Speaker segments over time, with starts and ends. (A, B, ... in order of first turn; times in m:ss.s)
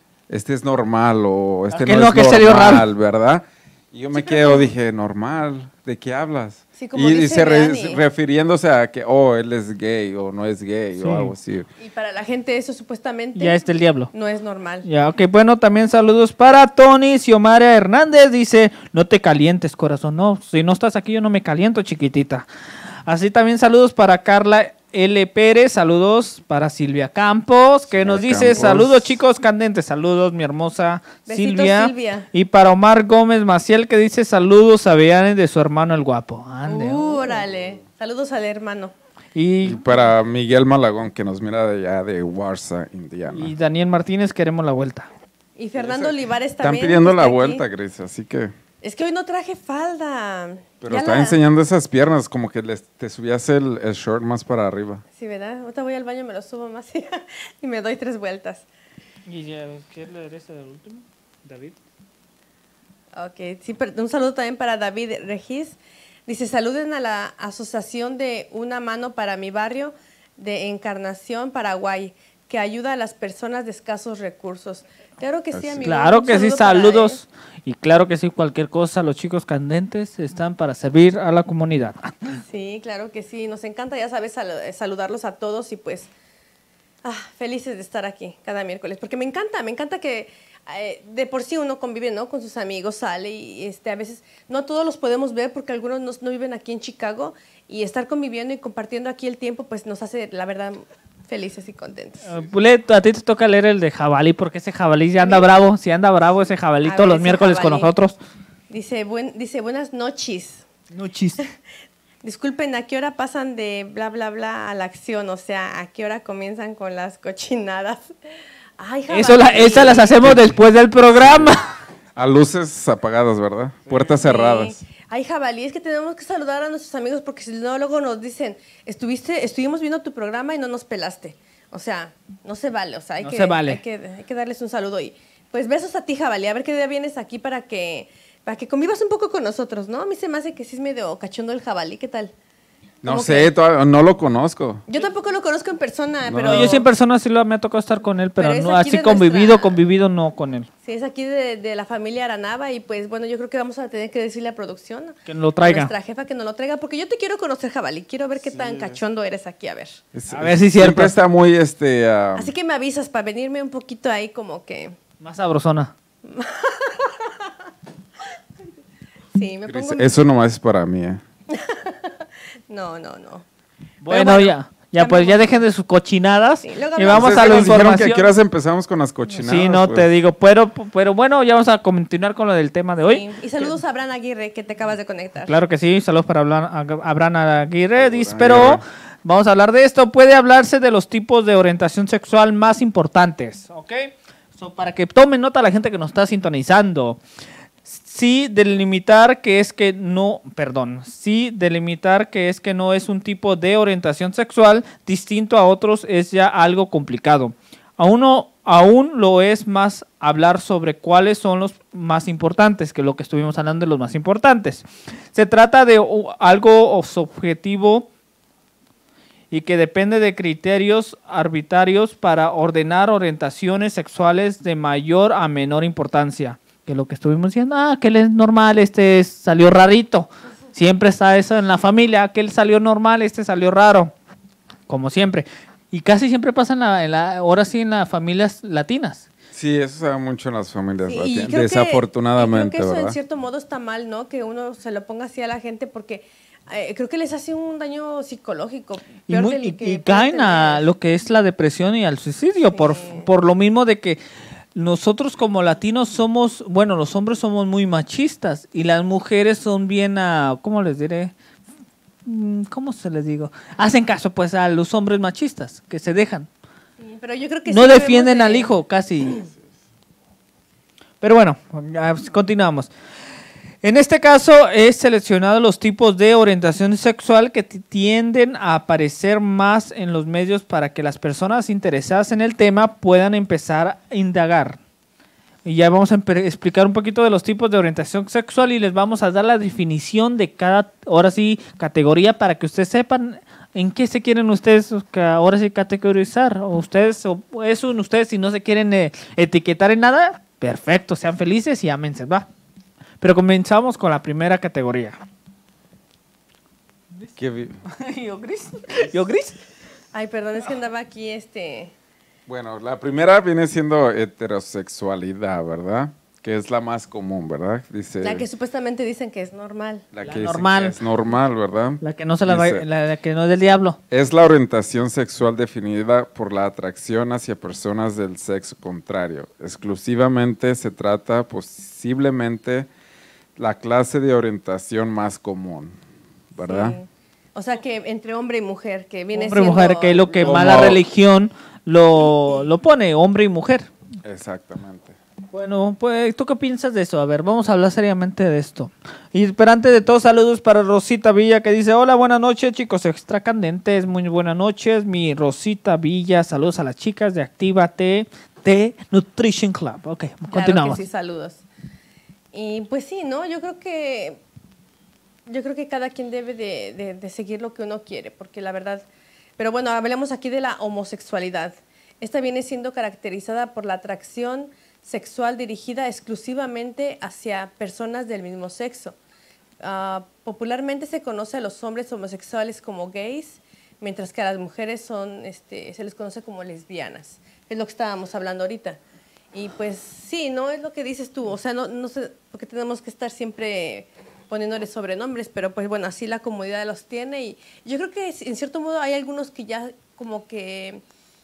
0:00.3-0:11.7 A
0:01.7-0:02.9 B
0:04.1-0:04.7 C
0:06.8-0:08.0 C
0:11.0-0:11.3 B
0:11.8-0:14.9 C
0:13.4-0:14.1 B
0:14.8-0:22.5 B
0:23.1-0:37.4 B
0:27.9-0:29.2 A
0:31.3-0:32.3 C
0:36.7-0:38.9 C
0:39.4-0:39.8 B
0:39.6-0:43.5 A
0:43.3-0:45.1 B
0:45.6-0:47.6 C
0:45.8-0:48.5 A
0:48.8-0:51.4 C
0:50.8-0:55.0 A
0:55.2-0:58.7 C
0:59.3-1:01.8 B
1:03.1-1:17.2 C
1:15.5-1:15.9 A
1:15.8-1:22.4 B
1:22.4-1:26.1 C
1:27.0-1:42.2 C
1:42.2-1:48.2 B
1:45.2-1:45.5 C
1:46.8-1:47.9 C
1:48.7-1:50.7 C
1:50.9-1:51.4 B
1:52.2-1:58.1 C
1:58.8-2:00.3 C
1:59.1-2:01.7 B
2:00.2-2:00.6 A
2:01.2-2:01.6 A
2:02.2-2:04.8 A
2:04.1-2:22.3 C
2:13.2-2:13.8 B
2:23.0-2:23.5 C
2:23.0-2:24.9 A
2:24.9-2:26.9 C
2:26.2-2:26.8 A
2:26.4-2:30.7 B
2:28.4-2:29.8 C
2:30.8-2:40.0 C
2:35.3-2:35.9 B
2:38.4-2:39.0 A
2:40.1-2:42.5 A
2:40.3-2:41.1 B
2:42.4-2:45.0 C
2:45.2-2:45.9 B
2:46.2-2:47.5 C
2:49.3-2:50.1 C
2:49.7-2:51.2 A
2:51.5-2:53.4 C
2:54.0-2:58.3 B
2:54.1-2:55.6 C
2:56.6-2:57.9 C
2:57.1-3:00.1 A
2:59.4-3:03.7 B
3:03.0-3:05.5 C
3:05.5-3:17.2 B
3:08.0-3:08.8 A
3:17.8-3:38.1 B
3:39.5-3:54.1 B
3:54.9-3:59.3 B
3:59.5-4:03.2 A
4:01.0-4:10.8 C
4:09.3-4:14.2 B
4:12.6-4:13.3 C
4:14.8-4:21.3 B
4:22.2-4:26.5 B
4:27.0-4:28.7 C
4:27.7-4:29.4 B
4:31.2-4:32.9 B
4:33.8-4:44.8 B
4:45.6-5:02.5 B
5:03.2-5:05.2 B
5:07.4-5:07.8 A
5:07.8-5:09.6 B
5:10.1-5:11.9 C
5:12.5-5:18.4 A
5:18.2-5:20.1 C
5:20.1-5:22.8 A
5:20.2-5:21.0 B
5:22.0-5:24.0 B
5:24.1-5:32.9 A
5:33.6-5:36.0 A
5:36.5-5:37.0 A
5:36.6-5:40.8 C
5:39.3-5:43.9 B
5:40.4-5:41.0 A
5:44.2-5:45.2 A
5:45.5-6:01.0 B
6:00.5-6:01.7 C
6:02.5-6:04.4 C
6:05.5-6:09.0 C
6:09.6-6:19.2 C
6:19.8-6:29.0 C
6:29.5-6:41.0 C